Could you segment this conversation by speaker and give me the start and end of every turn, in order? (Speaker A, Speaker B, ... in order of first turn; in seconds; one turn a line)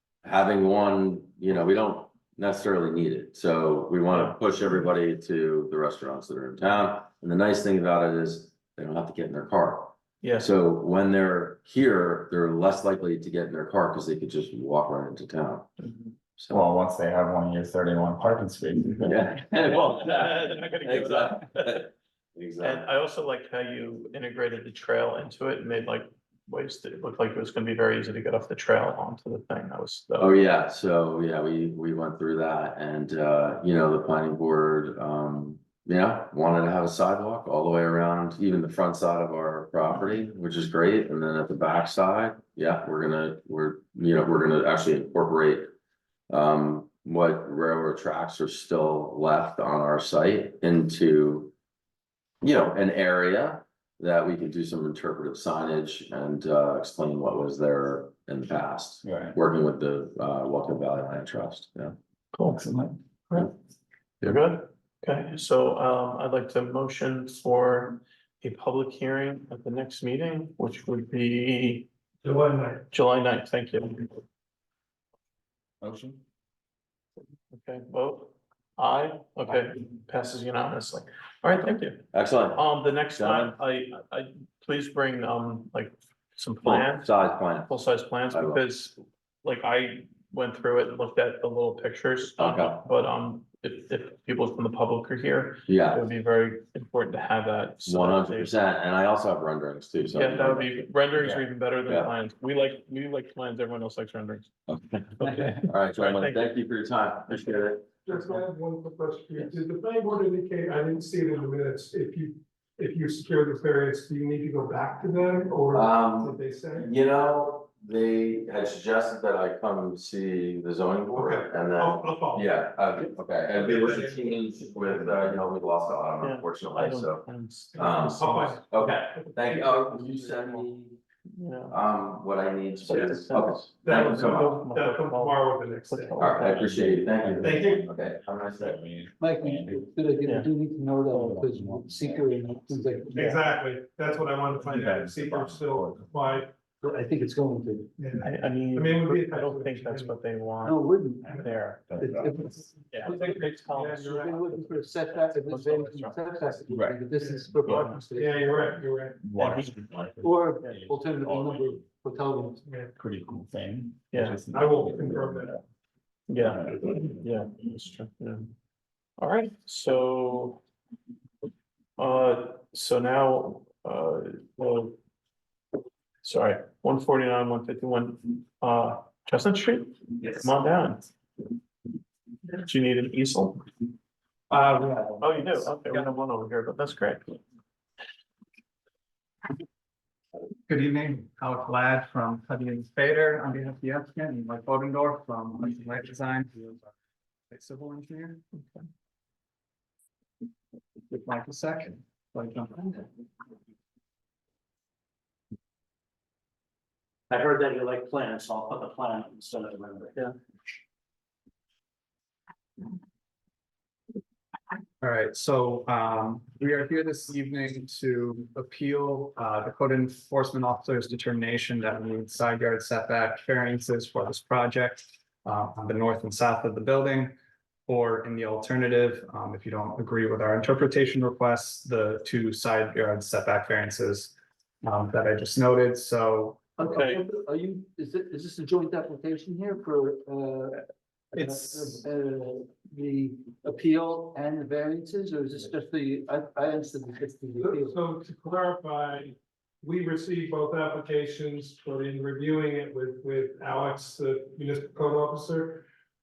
Speaker A: 0.2-15.7
Speaker B: 4.1-4.4
Speaker B: 10.2-10.5
Speaker B: 15.8-16.1
Speaker A: 16.4-16.6
Speaker C: 16.5-19.3
Speaker A: 19.0-22.9
Speaker B: 19.6-21.8
Speaker B: 22.6-30.4
Speaker A: 30.2-45.7
Speaker A: 46.3-51.5
Speaker A: 52.4-62.0
Speaker C: 59.0-59.4
Speaker B: 62.3-62.6
Speaker D: 62.5-63.0
Speaker B: 64.2-71.9
Speaker E: 72.2-72.8
Speaker B: 72.9-74.2
Speaker C: 75.8-76.2
Speaker B: 77.5-98.5
Speaker A: 82.1-83.5
Speaker A: 86.6-87.7
Speaker A: 88.3-88.6
Speaker A: 92.4-92.8
Speaker A: 95.7-96.0
Speaker A: 97.8-102.1
Speaker B: 100.1-104.5
Speaker A: 104.7-107.9
Speaker B: 105.2-106.5
Speaker E: 108.0-116.9
Speaker A: 115.7-127.2
Speaker E: 121.1-122.5
Speaker E: 123.6-124.3
Speaker B: 126.2-128.6
Speaker E: 127.8-129.7
Speaker A: 127.8-131.0
Speaker B: 130.2-130.6
Speaker B: 131.3-131.7
Speaker A: 131.7-134.6
Speaker B: 132.8-136.6
Speaker E: 133.8-136.2
Speaker A: 136.2-138.8
Speaker C: 136.4-137.9
Speaker E: 137.4-137.8
Speaker C: 138.5-139.9
Speaker F: 139.2-143.3
Speaker B: 140.2-140.5
Speaker C: 141.1-143.0
Speaker E: 143.1-146.6
Speaker C: 144.5-146.3
Speaker F: 146.8-147.9
Speaker E: 148.0-150.2
Speaker B: 148.2-151.8
Speaker F: 150.6-151.4
Speaker C: 151.2-152.6
Speaker F: 152.0-153.2
Speaker B: 152.9-156.6
Speaker E: 153.0-154.4
Speaker F: 154.0-158.7
Speaker C: 156.7-157.0
Speaker E: 157.1-157.5
Speaker B: 157.6-158.0
Speaker E: 158.1-159.2
Speaker C: 159.2-161.8
Speaker B: 159.4-159.7
Speaker F: 160.2-162.6
Speaker E: 162.6-162.9
Speaker C: 162.9-165.6
Speaker B: 164.1-164.4
Speaker E: 164.5-165.6
Speaker B: 166.3-168.5
Speaker C: 166.4-166.8
Speaker B: 169.2-170.6
Speaker B: 172.0-175.0
Speaker B: 176.2-181.1
Speaker B: 182.5-183.6
Speaker D: 184.5-185.2
Speaker B: 185.2-187.4
Speaker D: 190.7-196.9
Speaker D: 197.5-198.4
Speaker B: 198.6-198.8
Speaker D: 201.1-203.1
Speaker G: 207.3-210.2
Speaker D: 215.0-236.6
Speaker F: 236.8-248.0
Speaker B: 236.8-237.2
Speaker E: 247.6-255.8